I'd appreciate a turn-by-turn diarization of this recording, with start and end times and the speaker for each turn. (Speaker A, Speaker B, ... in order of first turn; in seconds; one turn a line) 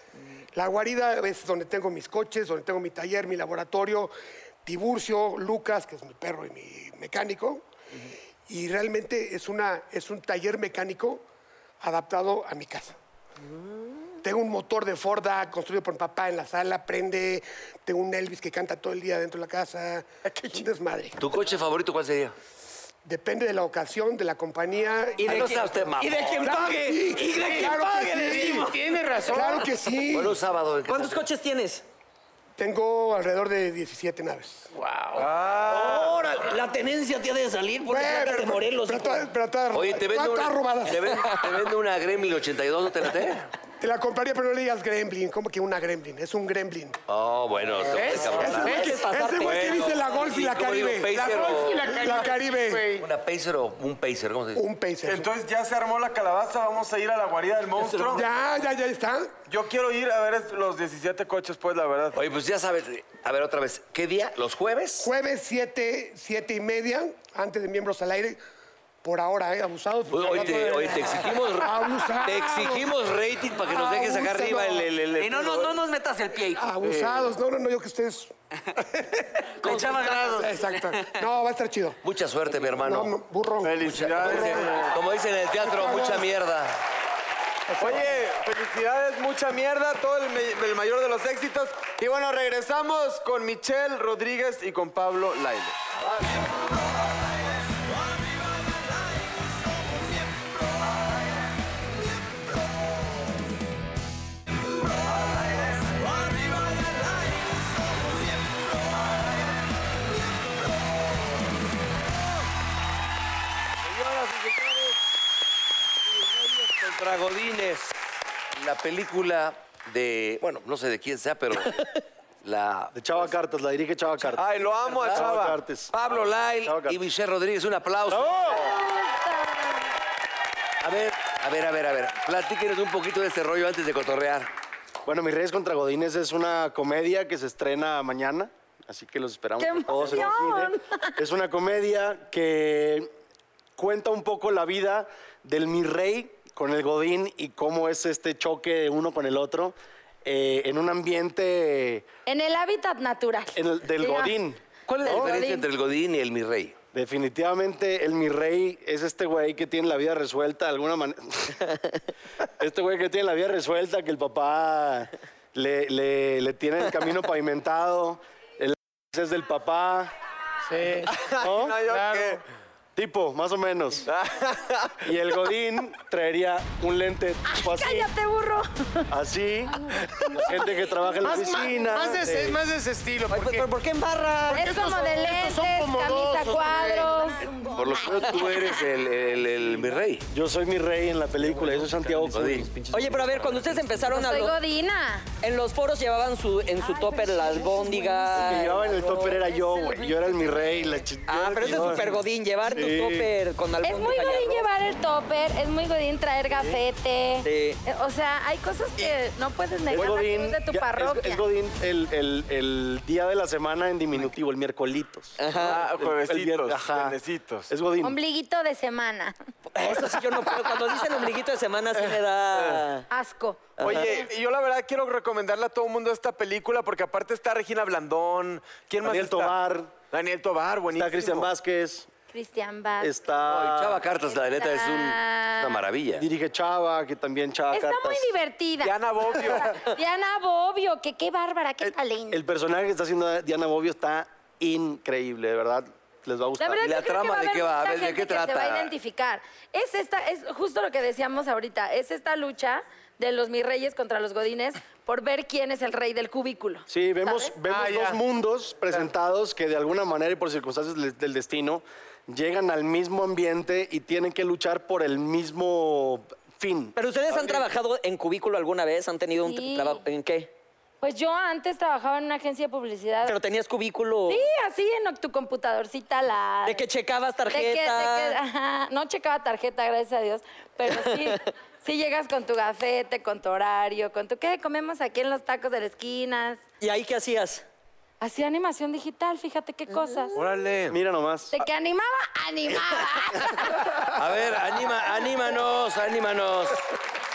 Speaker A: 0.5-4.1
Speaker A: 4.7-7.7
Speaker A: 8.5-11.2
Speaker A: 11.8-13.0
Speaker A: 14.2-21.2
Speaker B: 20.3-20.6
Speaker C: 21.2-22.4
Speaker A: 23.0-28.7
Speaker D: 25.2-28.8
Speaker C: 25.2-26.6
Speaker B: 27.4-29.7
Speaker A: 29.3-30.4
Speaker C: 30.1-31.2
Speaker D: 30.9-31.8
Speaker A: 32.6-34.7
Speaker B: 34.7-35.3
Speaker E: 35.2-36.2
Speaker D: 35.6-39.3
Speaker A: 37.8-41.3
Speaker C: 39.7-43.5
Speaker A: 43.8-47.0
Speaker C: 47.1-52.0
Speaker D: 47.9-49.9
Speaker B: 47.9-48.9
Speaker A: 48.1-52.9
Speaker B: 51.1-53.1
Speaker C: 53.0-54.6
Speaker A: 54.5-55.3
Speaker E: 55.0-58.3
Speaker A: 58.1-59.3
Speaker E: 59.5-62.2
Speaker C: 62.1-65.1
Speaker A: 65.0-68.4
Speaker A: 69.0-72.9
Speaker C: 70.1-75.8
Speaker A: 73.6-74.9
Speaker D: 75.2-76.7
Speaker A: 76.5-78.3
Speaker E: 76.8-77.3
Speaker D: 79.6-81.2
Speaker A: 79.6-82.0
Speaker B: 79.6-80.4
Speaker C: 82.0-83.2
Speaker A: 82.8-84.8
Speaker E: 83.6-85.0
Speaker C: 83.8-86.8
Speaker A: 85.6-86.3
Speaker A: 87.7-88.1
Speaker E: 87.8-95.8
Speaker C: 113.8-115.0
Speaker C: 116.1-117.9
Speaker C: 118.5-123.0
Speaker F: 122.9-125.9
Speaker E: 124.3-125.6
Speaker C: 125.9-128.7
Speaker F: 126.6-127.0
Speaker F: 128.1-128.7
Speaker G: 128.4-129.9
Speaker C: 130.8-134.5
Speaker F: 135.1-143.1
Speaker G: 139.6-141.2
Speaker F: 143.8-152.1
Speaker G: 152.3-154.4
Speaker F: 153.6-155.3
Speaker C: 154.9-156.8
Speaker G: 155.0-155.7
Speaker F: 156.9-161.8
Speaker F: 162.6-170.1
Speaker B: 170.7-171.1
Speaker E: 171.1-172.4
Speaker F: 171.4-171.8
Speaker B: 171.9-172.4
Speaker F: 172.9-174.1
Speaker E: 174.1-175.1
Speaker F: 175.0-178.1
Speaker G: 177.5-179.1
Speaker F: 179.1-182.6
Speaker G: 179.9-181.2
Speaker B: 181.2-183.7
Speaker D: 183.3-184.7
Speaker B: 184.5-187.3
Speaker G: 184.5-188.9
Speaker C: 187.6-190.3
Speaker F: 190.3-193.8
Speaker C: 192.2-192.7
Speaker D: 192.9-194.6
Speaker G: 194.0-195.3
Speaker D: 195.4-200.0
Speaker G: 196.8-200.4
Speaker F: 198.3-203.3
Speaker D: 201.3-204.7
Speaker G: 203.8-211.5
Speaker D: 207.4-207.8
Speaker F: 209.9-217.2
Speaker D: 215.4-215.9
Speaker E: 215.5-217.7
Speaker F: 217.7-218.2
Speaker G: 218.0-219.3
Speaker D: 219.7-223.1
Speaker E: 222.6-222.9
Speaker G: 223.1-224.3
Speaker D: 223.8-224.1
Speaker E: 223.8-229.6
Speaker F: 229.0-229.9
Speaker E: 230.1-231.5
Speaker F: 230.9-232.1
Speaker G: 232.3-233.2
Speaker F: 233.0-234.0
Speaker C: 233.4-236.3
Speaker G: 234.2-235.8
Speaker F: 236.2-238.3
Speaker G: 237.7-242.4
Speaker E: 238.8-239.9
Speaker F: 241.8-246.8
Speaker G: 246.6-257.6
Speaker C: 246.8-248.9
Speaker F: 256.9-267.6
Speaker B: 257.7-258.2
Speaker D: 266.9-270.5
Speaker G: 269.4-270.0
Speaker G: 271.0-273.4
Speaker D: 273.2-274.5
Speaker G: 274.3-276.8
Speaker D: 276.6-278.4
Speaker G: 277.5-286.6
Speaker D: 280.9-281.4
Speaker D: 286.8-287.6
Speaker G: 288.2-290.4
Speaker E: 290.4-291.0
Speaker F: 290.9-291.6
Speaker G: 291.5-294.1
Speaker C: 294.1-296.9